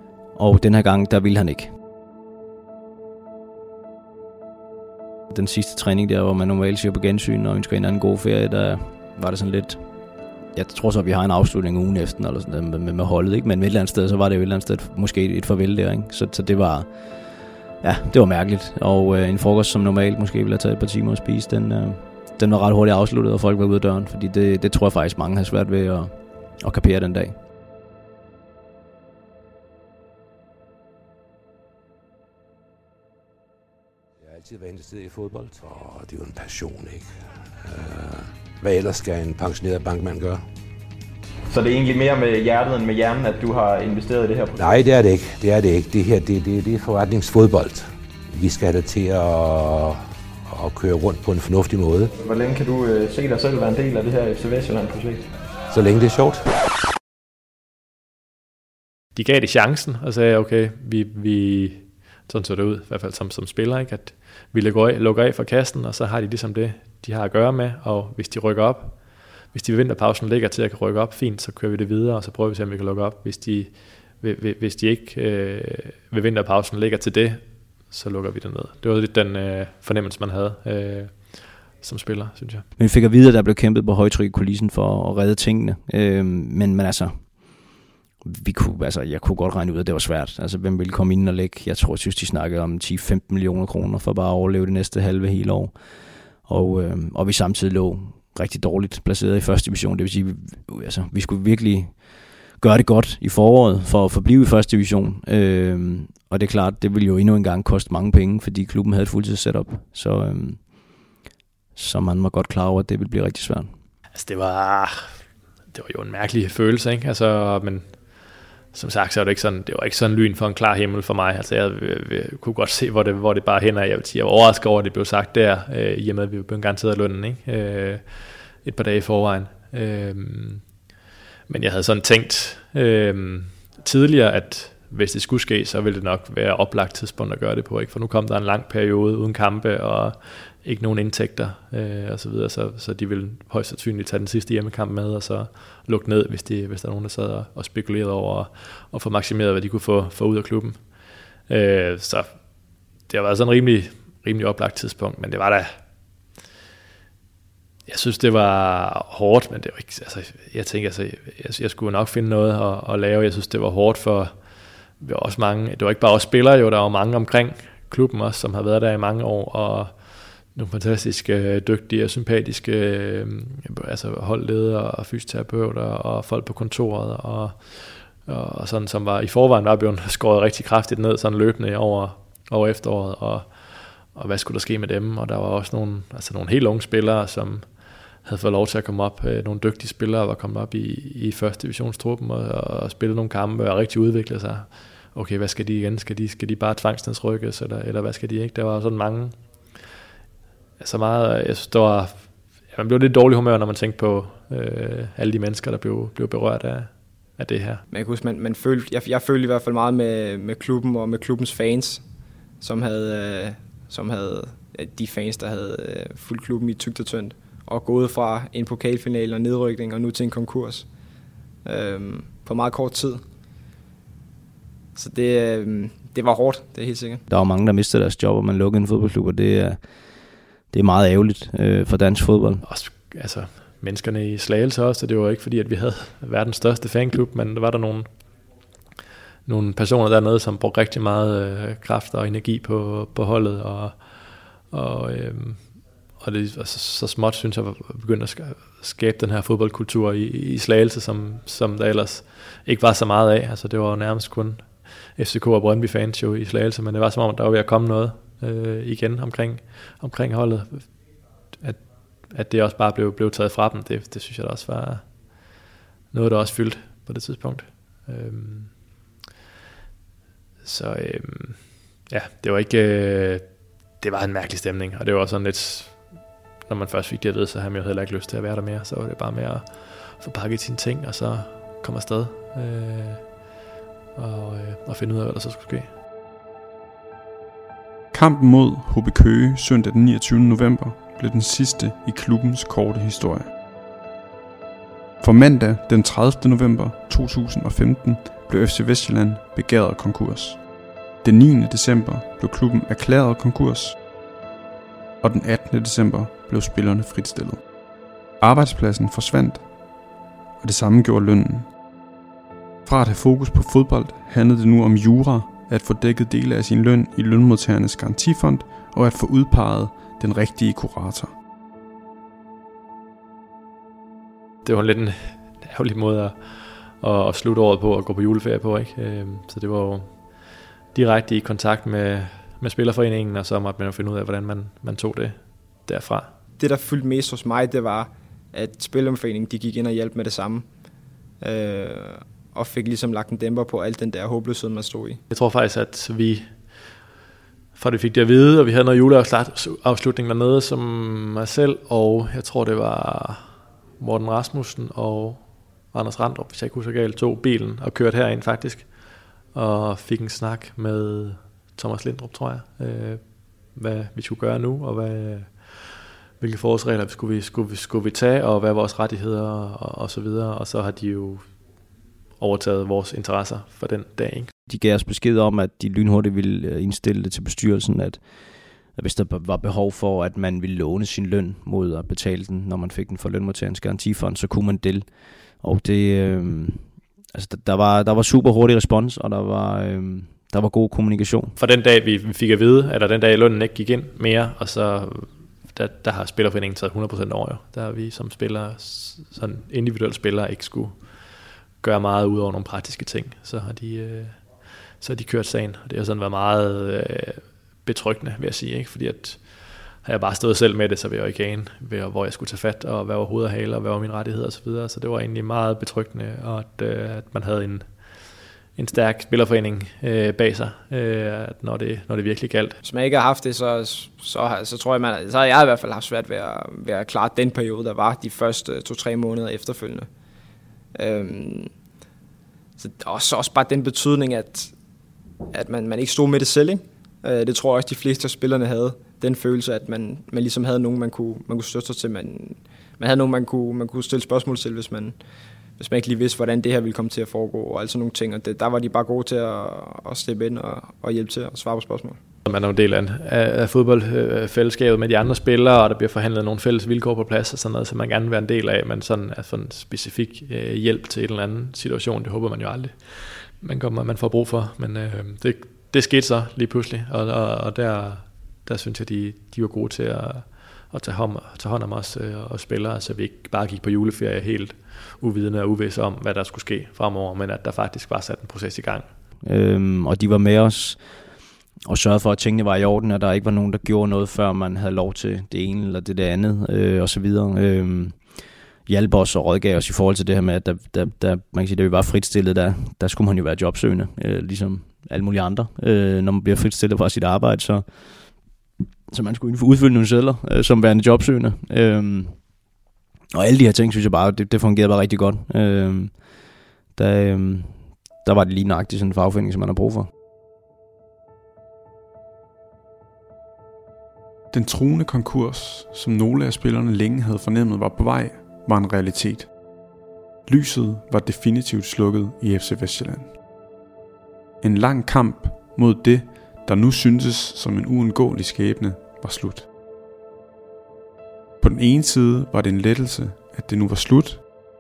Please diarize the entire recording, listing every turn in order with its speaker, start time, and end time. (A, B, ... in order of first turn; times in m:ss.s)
0:00.4-0:01.7 A
0:05.3-0:09.8 A
0:10.5-0:27.4 A
0:34.2-0:40.4 B
0:41.5-0:44.6 C
0:44.6-0:52.1 B
0:52.2-0:55.3 C
0:55.7-0:56.5 B
0:59.2-1:22.7 D
1:22.8-1:27.4 A
1:28.2-1:35.8 A
1:36.4-1:42.0 A
1:42.6-1:50.6 A
1:51.8-1:53.7 A
1:54.2-1:55.2 D
1:55.7-1:58.0 D
1:58.7-2:10.7 D
2:11.5-2:30.9 D
2:31.5-2:32.4 D
2:33.1-2:35.7 D
2:37.9-2:44.4 D
2:45.0-3:07.7 D
3:08.2-3:19.4 D
3:20.8-3:27.8 D
3:27.9-3:32.0 E
3:32.6-3:40.9 E
3:41.6-3:43.2 E
3:45.0-3:47.2 E
3:47.3-3:49.8 A
3:50.7-3:52.6 A
3:52.6-3:58.1 D
3:59.5-4:21.0 D
4:21.6-4:25.1 D
4:26.1-4:28.7 D
4:30.6-4:36.2 D
4:36.7-4:43.3 D
4:44.2-4:45.9 D
4:48.1-4:53.5 F
4:55.2-5:00.6 F
5:01.2-5:04.0 F
5:05.2-5:07.6 F
5:08.4-5:09.6 F
5:10.6-5:11.7 F
5:12.9-5:21.3 F
5:24.6-5:36.3 D
5:36.6-5:40.6 E
5:41.4-5:45.2 E
5:45.3-5:46.5 D
5:47.8-5:59.0 D
5:59.5-6:11.5 D
6:12.4-6:14.5 D
6:14.7-6:18.2 A
6:19.0-6:25.1 A
6:25.6-6:31.6 A
6:31.6-7:02.8 D
7:02.8-7:10.1 E
7:11.0-7:11.7 E
7:12.8-7:14.7 E
7:15.5-7:25.2 E
7:25.8-7:32.2 E
7:32.5-7:59.1 D
7:59.4-8:01.0 A
8:01.8-8:08.2 A
8:08.9-8:17.9 A
8:19.1-8:22.4 A
8:23.3-8:26.1 A
8:27.0-8:30.1 A
8:34.5-8:39.5 F
8:40.5-8:43.3 F
8:44.6-8:49.7 F
8:51.6-8:54.4 F